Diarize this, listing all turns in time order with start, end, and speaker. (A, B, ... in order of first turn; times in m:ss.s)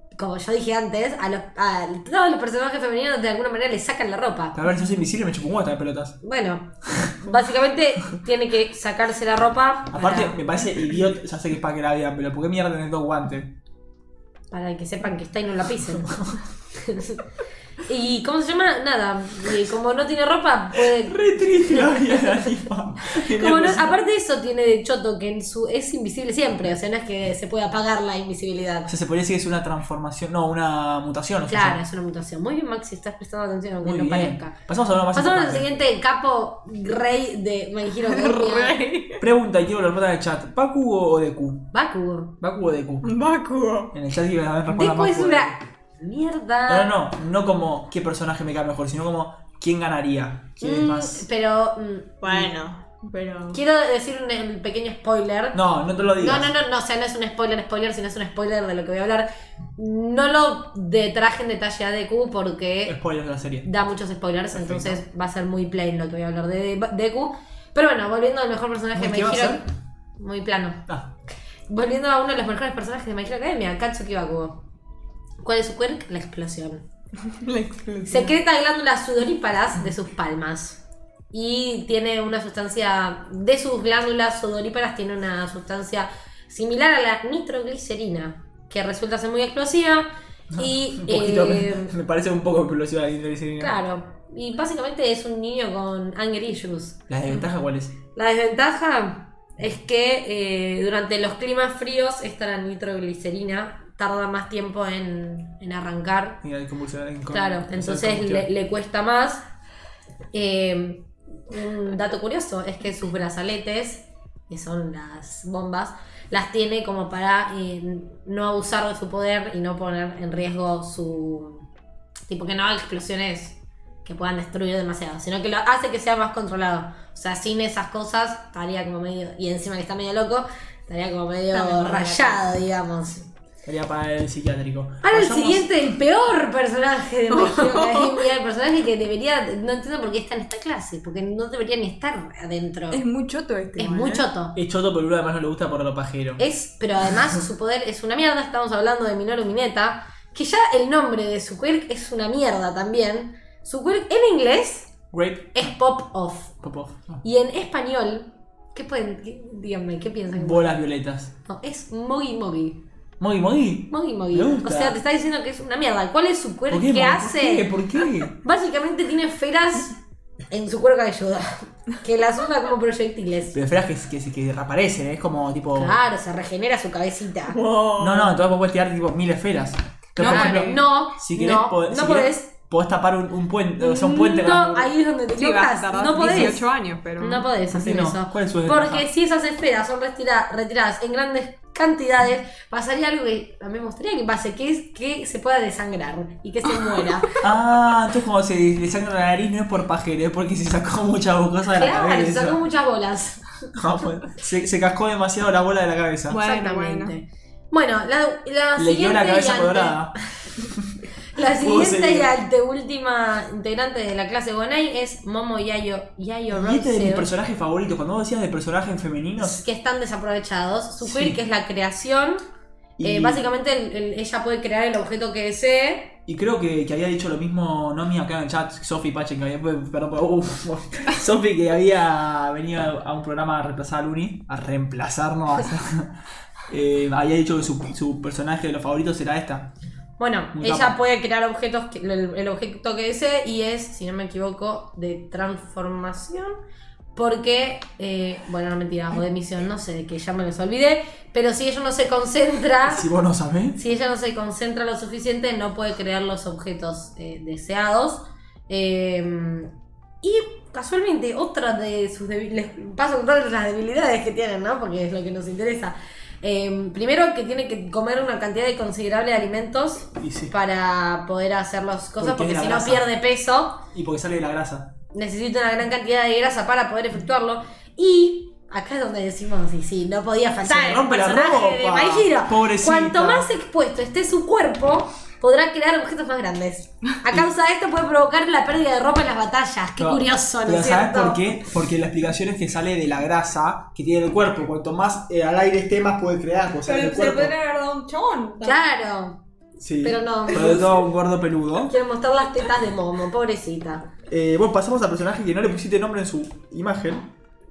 0:00.1-0:04.6 A
0:04.5-0:06.2 B
0:06.2-0:10.4 A
0:06.8-0:07.3 B
0:09.9-0:13.5 B
0:14.5-0:17.2 A
0:16.1-0:16.4 B
0:17.9-0:21.2 A
0:20.8-0:24.0 B
0:21.8-0:22.4 A
0:23.1-0:28.9 A
0:28.9-0:31.8 B
0:31.5-0:34.6 A
0:33.8-0:35.7 B
0:35.1-0:38.7 A
0:38.1-0:39.2 C
0:39.2-0:41.7 B
0:41.7-0:42.3 A
0:42.4-0:43.1 B
0:43.0-0:43.9 C
0:43.9-0:45.6 B
0:44.7-0:46.9 A
0:46.7-0:51.2 B
0:50.6-0:52.5 A
0:52.2-0:53.6 C
0:53.5-0:55.6 A
0:55.5-0:56.5 B
0:56.2-1:03.0 A
1:02.8-1:03.7 B
1:03.6-1:09.6 A
1:04.5-1:05.0 B
1:08.9-1:09.6 B
1:10.2-1:10.8 A
1:11.7-1:14.6 A
1:15.4-1:16.8 A
1:17.2-1:18.4 C
1:18.1-1:20.8 A
1:21.3-1:31.9 A
1:30.5-1:33.8 B
1:33.6-1:37.0 A
1:37.1-1:37.9 B
1:38.1-1:46.4 A
1:46.4-1:48.5 B
1:47.3-1:49.4 A
1:50.3-2:01.7 A
2:02.3-2:13.2 A
2:11.5-2:12.5 C
2:13.6-2:15.7 B
2:15.0-2:23.0 A
2:17.3-2:18.2 C
2:22.9-2:24.3 C
2:23.8-2:24.6 A
2:24.6-2:26.4 B
2:26.4-2:34.9 A
2:35.1-2:35.7 B
2:35.5-2:36.5 A
2:36.6-2:37.2 B
2:37.2-2:40.7 A
2:40.4-2:41.3 B
2:41.4-2:42.8 A
2:43.2-2:45.0 B
2:43.9-2:47.8 A
2:46.7-2:48.3 B
2:48.4-2:50.0 A
2:50.5-2:53.6 A
2:53.5-2:56.0 B
2:55.7-2:57.6 A
2:57.5-2:58.4 C
2:58.0-3:04.9 B
3:00.2-3:02.5 A
3:00.2-3:00.8 C
3:03.8-3:06.7 A
3:05.3-3:07.6 C
3:07.2-3:17.4 A
3:07.7-3:09.0 B
3:16.9-3:17.2 C
3:17.4-3:22.6 B
3:21.7-3:23.7 A
3:23.7-3:26.4 B
3:26.3-3:27.1 C
3:26.3-3:30.0 A
3:28.8-3:30.1 B
3:30.7-3:31.0 B
3:31.3-3:37.3 A
3:31.6-3:32.3 B
3:36.5-3:39.6 B
3:39.4-3:42.4 A
3:41.0-3:41.4 B
3:43.0-3:43.4 B
3:43.0-3:46.1 A
3:46.3-3:56.2 B
3:56.7-3:59.7 B
4:00.2-4:06.6 A
4:00.5-4:01.0 B
4:07.1-4:13.0 A
4:12.8-4:13.8 B
4:13.7-4:33.8 A
4:30.1-4:30.5 B
4:32.2-4:33.0 B
4:33.9-4:34.9 B
4:35.1-4:51.6 A
4:40.6-4:43.5 B
4:50.0-4:57.5 B
4:56.8-4:58.8 C
4:58.6-4:59.4 A
4:59.8-5:01.9 B
5:00.0-5:00.9 A
5:01.9-5:04.1 A
5:04.3-5:07.3 B